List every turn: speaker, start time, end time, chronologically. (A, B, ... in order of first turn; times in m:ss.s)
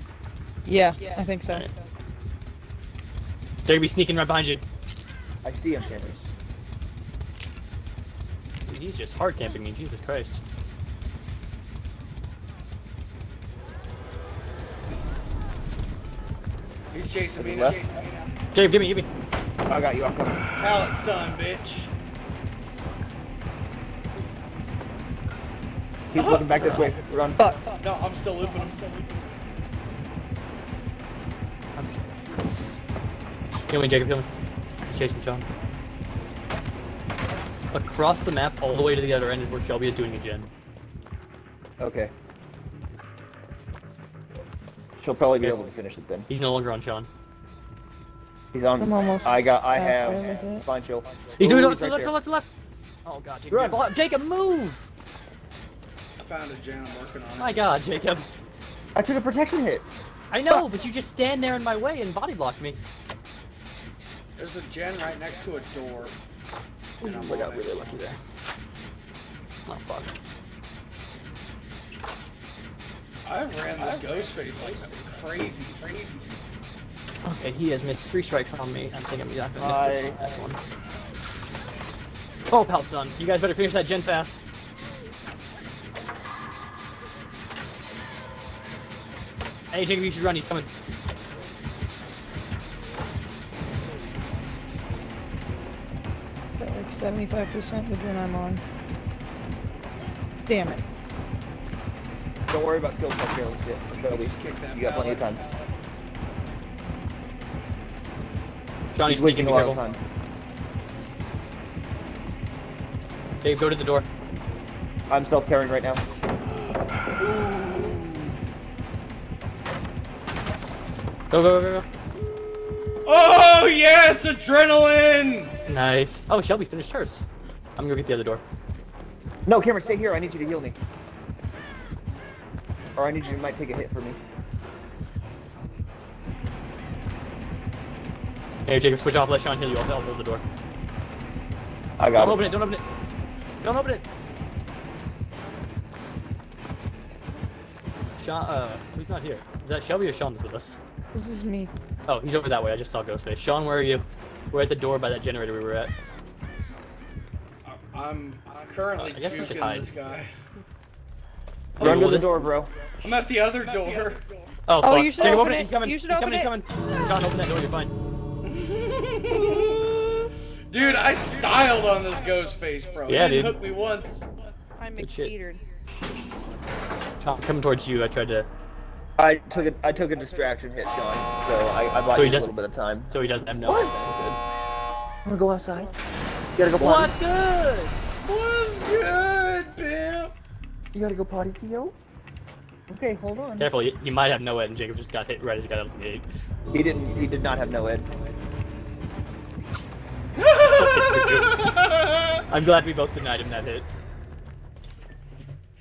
0:00.6-0:01.7 A
0:03.6-0:04.6 B
0:05.4-0:06.1 C
0:06.1-0:06.4 A
0:08.6-0:10.4 B
0:16.9-0:18.3 D
0:17.4-0:17.8 C
0:18.5-0:19.1 B
0:19.7-0:20.4 C
0:20.6-0:21.9 D
0:22.8-0:23.1 B
0:26.1-0:27.4 C
0:26.1-0:26.6 D
0:27.6-0:29.2 D
0:31.8-0:32.1 B
0:33.7-0:34.3 B
0:34.8-0:35.5 B
0:37.7-0:40.5 B
0:41.8-0:42.1 C
0:45.0-0:46.3 C
0:46.3-0:47.1 B
0:48.5-0:52.1 C
0:48.8-0:50.6 A
0:51.4-0:52.5 B
0:53.0-0:54.9 B
0:53.5-0:53.8 C
0:56.2-0:57.8 D
0:57.4-0:58.3 B
0:58.9-0:59.8 C
1:00.3-1:02.8 B
1:04.4-1:06.2 D
1:07.0-1:08.0 D
1:07.0-1:08.2 B
1:09.6-1:10.1 B
1:13.2-1:16.3 D
1:17.2-1:20.6 B
1:19.6-1:20.2 C
1:22.5-1:24.4 B
1:29.7-1:30.7 B
1:36.6-1:38.6 A
1:40.4-1:40.8 A
1:42.5-1:45.4 C
1:44.0-1:45.7 D
1:48.9-1:49.8 B
1:49.0-1:50.0 C
1:53.4-1:54.0 B
1:55.1-1:56.0 C
1:57.2-1:58.0 D
2:01.3-2:01.8 B
2:03.0-2:05.5 D
2:05.6-2:07.2 B
2:07.8-2:08.4 B
2:09.4-2:10.7 C
2:13.0-2:14.2 C
2:18.6-2:20.4 B
2:22.0-2:22.5 C
2:22.1-2:22.8 B
2:23.6-2:24.0 B
2:28.2-2:30.8 B
2:31.1-2:31.7 A
2:32.1-2:35.9 B
2:37.6-2:40.3 D
2:39.0-2:40.0 B
2:41.8-2:42.5 B
2:41.8-2:42.7 C
2:43.0-2:44.2 D
2:44.7-2:47.9 B
2:44.8-2:46.5 A
2:48.4-2:54.2 D
2:53.1-2:53.6 B
2:54.8-2:55.6 A
2:55.0-2:55.3 B
2:57.2-2:58.5 B
2:59.2-3:03.1 C
3:02.1-3:02.5 B
3:03.1-3:04.4 B
3:03.6-3:04.2 C
3:05.2-3:05.9 C
3:06.6-3:07.1 C
3:06.8-3:08.0 B
3:08.2-3:10.3 D
3:10.9-3:11.9 C
3:12.9-3:13.7 C
3:13.6-3:16.2 B
3:16.7-3:18.1 C
3:20.4-3:22.4 D
3:20.6-3:21.8 B
3:22.5-3:23.9 B